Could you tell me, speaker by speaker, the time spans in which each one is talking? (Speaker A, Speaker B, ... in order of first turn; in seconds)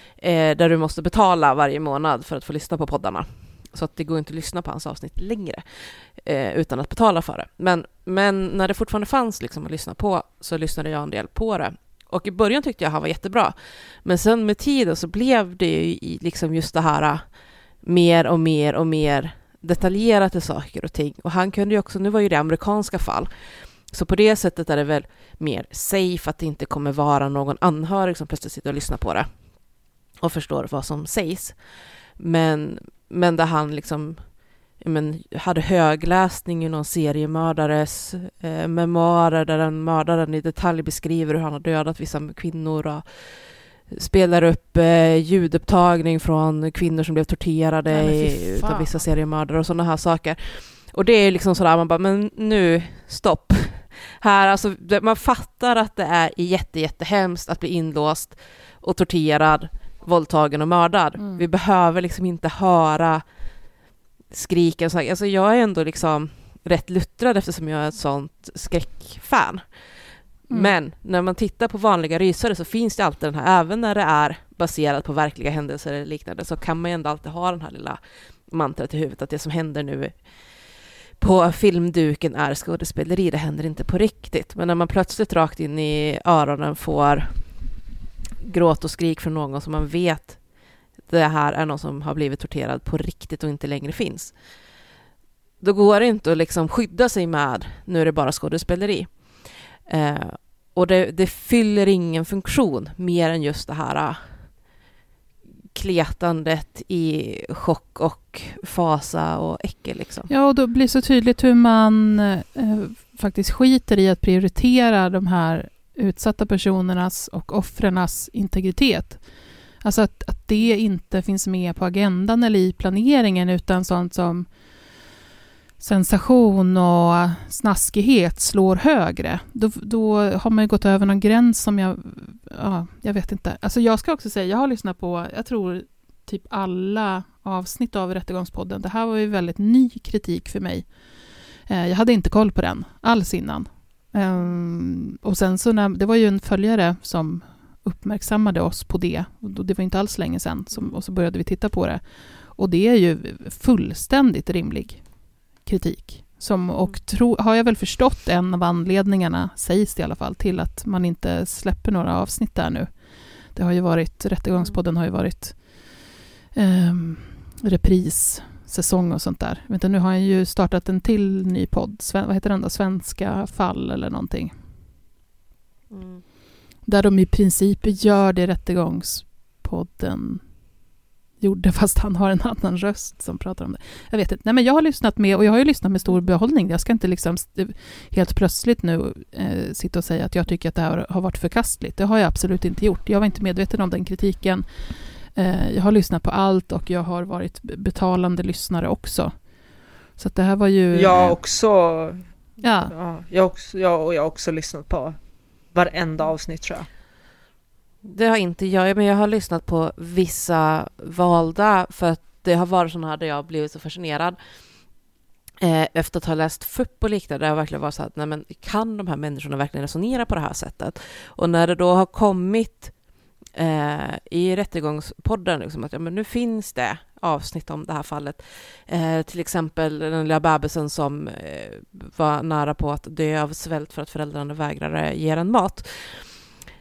Speaker A: 0.2-17.2, 17.8-23.3, 23.9-29.3, 30.2-31.6, 32.2-34.3, 34.8-63.2, 64.3-69.6, 70.5-80.2, 81.2-87.4, 88.4-90.4, 91.1-94.3, 95.6-104.2, 105.7-110.3, 175.9-176.2, 208.0-214.4, 215.6-222.9, 223.5-236.5
Speaker B: 47.9-49.0, 61.2-61.4, 110.3-119.2, 119.8-124.5, 125.8-140.9, 141.7-155.1, 155.6-162.9, 163.5-166.0, 166.5-174.5, 176.8-180.5, 181.4-199.3, 200.2-201.4, 202.6-202.9
Speaker C: 200.9-202.2, 202.9-205.2, 205.7-206.9